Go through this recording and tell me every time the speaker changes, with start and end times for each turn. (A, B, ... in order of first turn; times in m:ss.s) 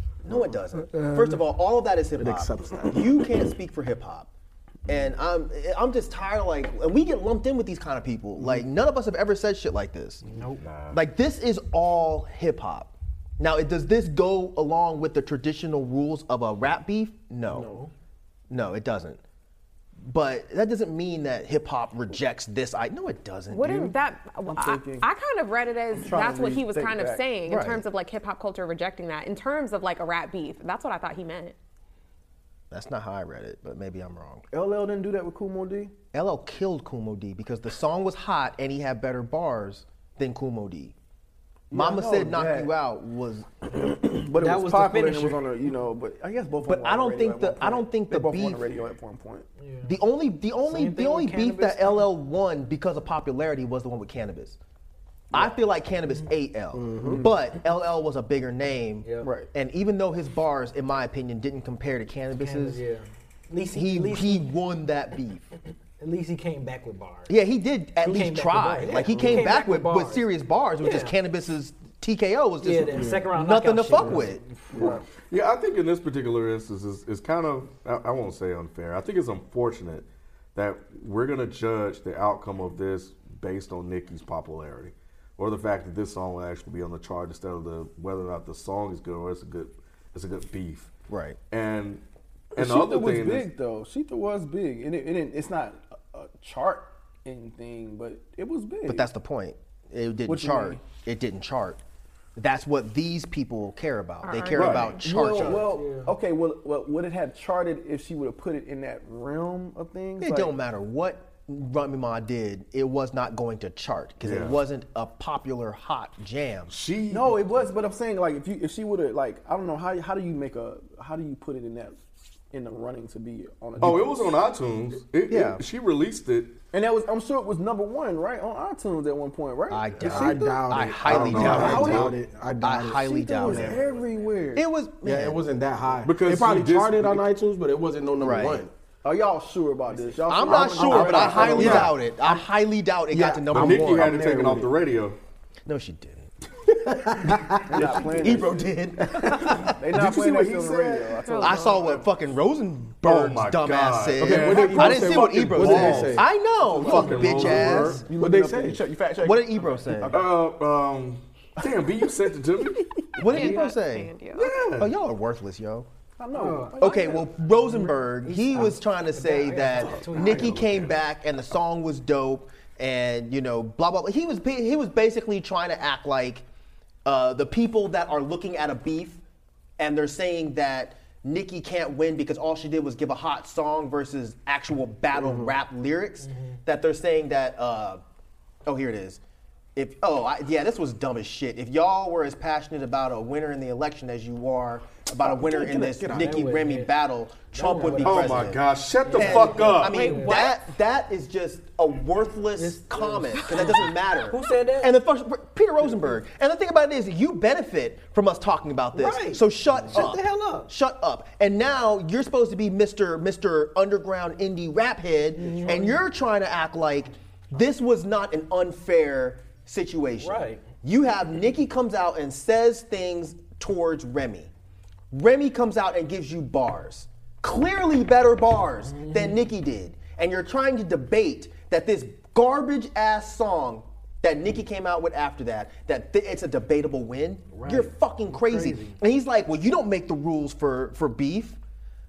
0:00.2-0:04.3 A
0:02.2-0:03.1 B
0:04.9-0:10.2 A
0:10.2-0:10.6 C
0:10.6-0:11.0 D
0:10.9-0:17.7 A
0:17.5-0:17.9 C
0:18.5-0:19.2 A
0:20.0-0:23.9 A
0:23.5-0:31.6 E
0:24.5-0:25.1 F
0:26.0-0:27.3 F
0:27.5-0:27.8 A
0:32.7-0:34.5 A
0:34.5-0:35.9 F
0:36.1-0:40.9 A
0:41.7-0:42.7 F
0:41.7-0:43.5 A
0:43.7-0:49.5 F
0:44.3-0:45.5 C
0:46.6-0:48.7 A
0:49.6-0:50.0 C
0:49.8-0:54.6 A
0:50.6-0:52.1 C
0:55.3-1:02.8 A
0:56.8-0:57.3 B
0:57.0-0:57.3 F
0:59.0-0:59.3 C
0:59.2-0:59.5 F
1:02.4-1:04.5 C
1:03.7-1:05.5 A
1:06.0-1:07.3 C
1:07.3-1:14.4 A
1:08.0-1:10.3 C
1:09.0-1:09.5 F
1:10.8-1:11.2 C
1:12.6-1:14.4 C
1:14.7-1:15.0 F
1:14.8-1:30.9 D
1:31.1-1:31.4 A
1:31.5-1:32.0 D
1:32.5-1:33.5 D
1:32.5-1:39.1 F
1:38.8-1:41.8 A
1:40.3-1:40.8 F
1:42.4-1:45.7 A
1:44.2-1:45.0 E
1:44.5-1:45.0 D
1:45.0-1:50.5 F
1:45.2-1:46.1 C
1:50.2-1:56.7 A
1:54.2-1:54.6 D
1:56.7-1:57.6 D
1:57.1-2:04.4 F
2:03.8-2:06.6 D
2:05.3-2:05.6 A
2:06.7-2:12.2 F
2:09.7-2:13.8 A
2:10.0-2:13.8 B
2:11.0-2:12.1 D
2:13.2-2:14.6 F
2:14.5-2:15.4 A
2:15.0-2:18.7 B
2:16.0-2:17.3 D
2:18.2-2:18.7 A
2:19.0-2:22.4 F
2:20.0-2:20.2 C
2:20.2-2:24.2 A
2:20.5-2:21.6 B
2:20.8-2:22.0 D
2:23.1-2:24.7 F
2:23.5-2:25.2 D
2:24.2-2:24.6 B
2:25.6-2:30.5 A
2:27.6-2:32.0 F
2:31.2-2:31.8 E
2:31.4-2:38.0 A
2:33.0-2:36.2 D
2:34.2-2:40.4 F
2:34.3-2:36.2 B
2:36.8-2:38.0 D
2:37.3-2:38.9 B
2:39.2-2:40.2 A
2:40.1-2:42.9 D
2:41.6-2:42.9 F
2:43.2-2:44.1 A
2:43.2-2:44.6 E
2:44.3-2:44.9 D
2:44.7-2:45.9 A
2:46.2-2:47.5 F
2:46.3-2:47.1 C
2:46.8-2:56.4 A
2:47.6-2:50.7 C
2:49.7-2:51.0 D
2:57.0-2:59.2 A
2:59.8-3:08.0 A
3:05.1-3:05.4 F
3:06.2-3:06.6 C
3:08.6-3:09.2 A
3:09.8-3:44.5 A
3:15.2-3:16.3 F
3:16.0-3:16.9 C
3:17.5-3:20.5 C
3:18.0-3:20.2 D
3:19.9-3:20.5 E
3:22.5-3:25.0 C
3:28.9-3:30.7 C
3:35.3-3:36.0 C
3:40.2-3:40.6 C
3:45.1-4:01.6 A
3:48.8-3:49.4 C
3:57.5-3:59.0 C